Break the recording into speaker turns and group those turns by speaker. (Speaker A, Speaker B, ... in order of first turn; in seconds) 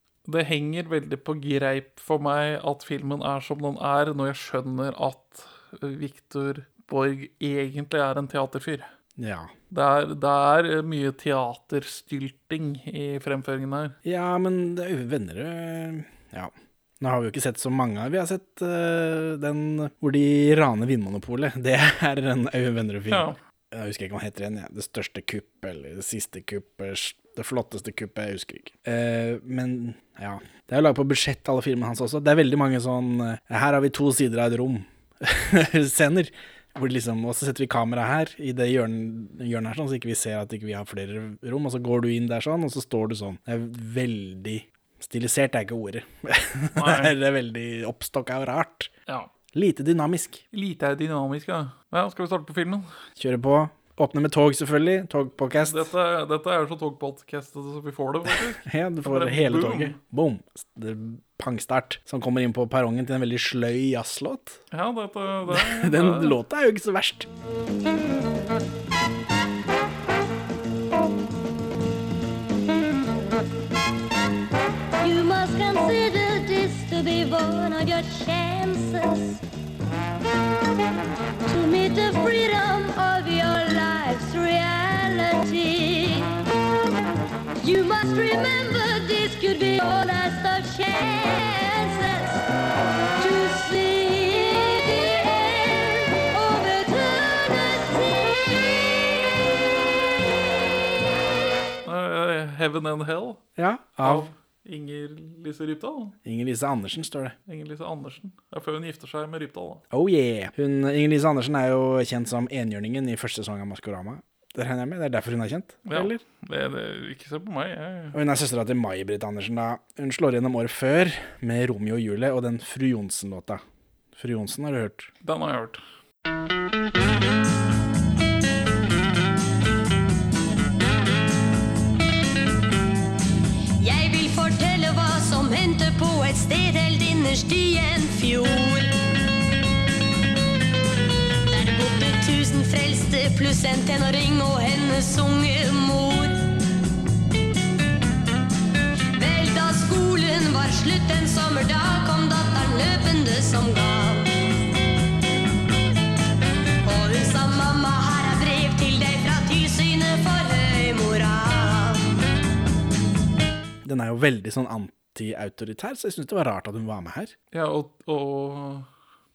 Speaker A: 0.2-8.9, 9.7-13.9, 23.1-23.4, 46.8-47.1, 50.5-52.9, 55.6-60.0, 64.7-66.4, 101.8-103.4, 104.0-106.2, 107.5-109.8, 115.8-118.2, 125.2-125.8, 167.5-168.9
Speaker B: 9.2-9.5, 14.0-48.9, 49.5-50.4, 53.2-55.9, 58.6-64.6, 65.5-67.3, 103.5-104.3, 106.2-107.3, 109.9-116.2, 118.1-123.6, 124.1-125.1, 163.8-167.3
Speaker C: 75.0-79.4, 81.4-86.3, 87.6-92.4, 93.2-99.0, 133.8-138.9, 141.5-146.4, 149.1-154.3, 156.8-162.0